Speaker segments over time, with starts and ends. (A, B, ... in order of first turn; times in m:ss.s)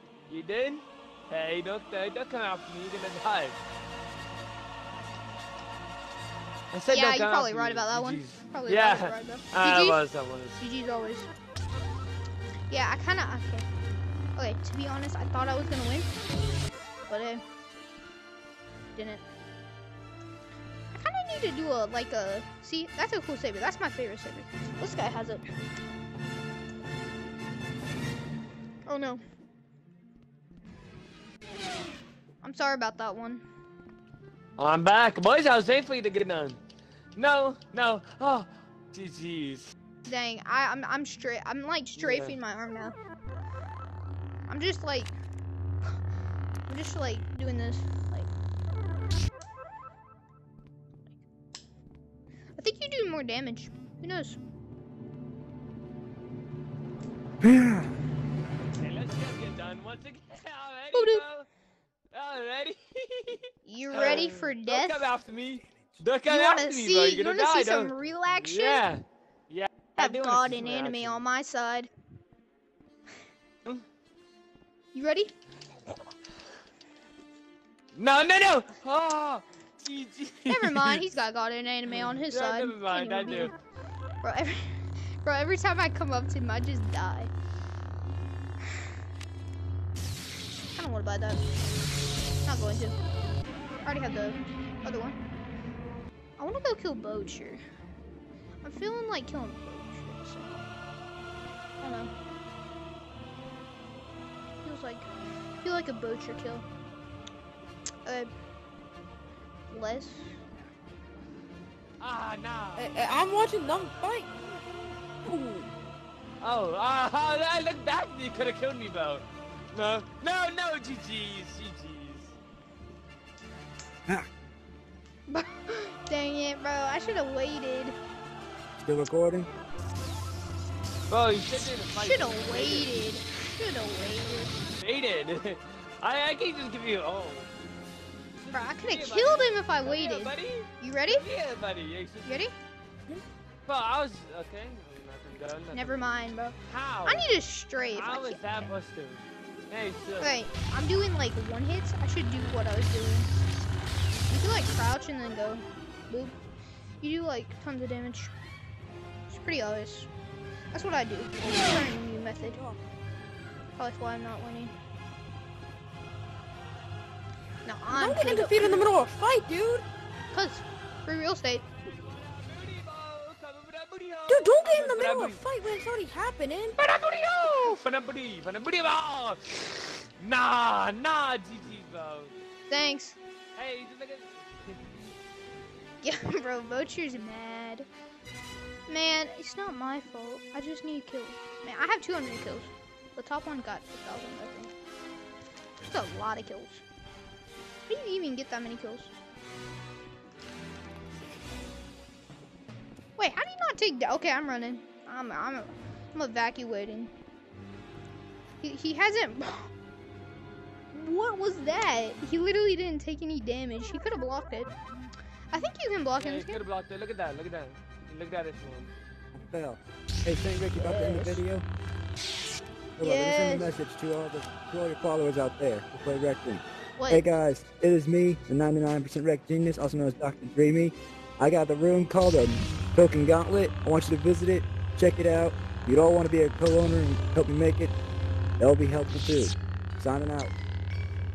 0:00.3-0:03.6 A
0:06.7-0:10.6 A
0:06.9-0:10.0 B
0:10.6-0:11.3 B
0:12.7-0:13.6 B
0:14.4-0:16.1 B
0:17.1-0:17.4 B
0:18.9-0:19.2 B
0:20.9-0:25.5 B
0:28.8-0:29.2 B
0:32.4-0:33.4 B
0:34.6-0:36.6 A
0:37.2-0:39.7 A
0:40.0-0:43.0 B
0:42.0-0:42.4 A
0:44.5-0:45.1 B
0:46.7-0:48.3 B
0:52.6-0:54.4 B
0:57.4-0:57.9 C
0:58.8-1:01.5 A
1:00.9-1:01.2 B
1:02.1-1:11.2 A
1:03.6-1:05.1 B
1:06.3-1:08.9 B
1:10.0-1:11.9 B
1:14.9-1:15.3 B
1:17.9-1:21.0 A
1:20.5-1:23.5 B
1:21.9-1:23.5 A
1:24.2-1:27.3 B
1:30.8-1:31.4 B
1:32.4-1:33.0 B
1:33.8-1:35.2 B
1:36.4-1:37.6 B
1:38.6-1:40.6 B
1:41.8-1:42.1 B
1:44.6-1:45.1 B
1:45.6-1:46.6 B
1:49.7-1:50.4 B
1:52.0-1:54.8 A
1:52.8-1:54.3 D
1:55.2-1:55.7 D
1:56.4-2:02.3 A
2:05.3-2:08.0 B
2:08.8-2:09.5 C
2:11.1-2:13.0 A
2:12.0-2:14.6 B
2:14.7-2:17.5 A
2:18.4-2:22.3 A
2:18.5-2:21.2 B
2:22.2-2:22.5 B
2:23.7-2:26.1 A
2:25.7-2:28.7 B
2:26.7-2:27.3 A
2:27.9-2:30.4 A
2:30.2-2:33.3 B
2:34.3-2:36.3 B
2:37.0-2:38.3 B
2:39.3-2:40.1 B
2:40.7-2:42.6 B
2:42.4-2:42.8 D
2:43.8-2:44.7 B
2:47.6-2:48.9 B
2:47.9-2:49.8 D
2:50.3-2:51.6 B
2:51.8-2:55.4 A
2:54.3-2:56.8 D
2:56.8-3:02.3 A
3:02.7-3:03.2 B
3:03.6-3:04.8 A
3:06.0-3:07.9 B
3:08.9-3:14.7 B
3:15.8-3:16.8 B
3:17.9-3:19.1 B
3:23.2-3:27.1 B
3:28.6-3:29.7 B
3:30.9-3:34.7 B
3:35.5-3:36.6 B
3:36.2-3:38.9 A
3:39.3-3:41.6 C
3:40.8-3:41.3 D
3:43.0-3:57.9 C
3:43.0-3:43.7 B
3:47.0-3:47.2 B
3:58.6-4:00.5 C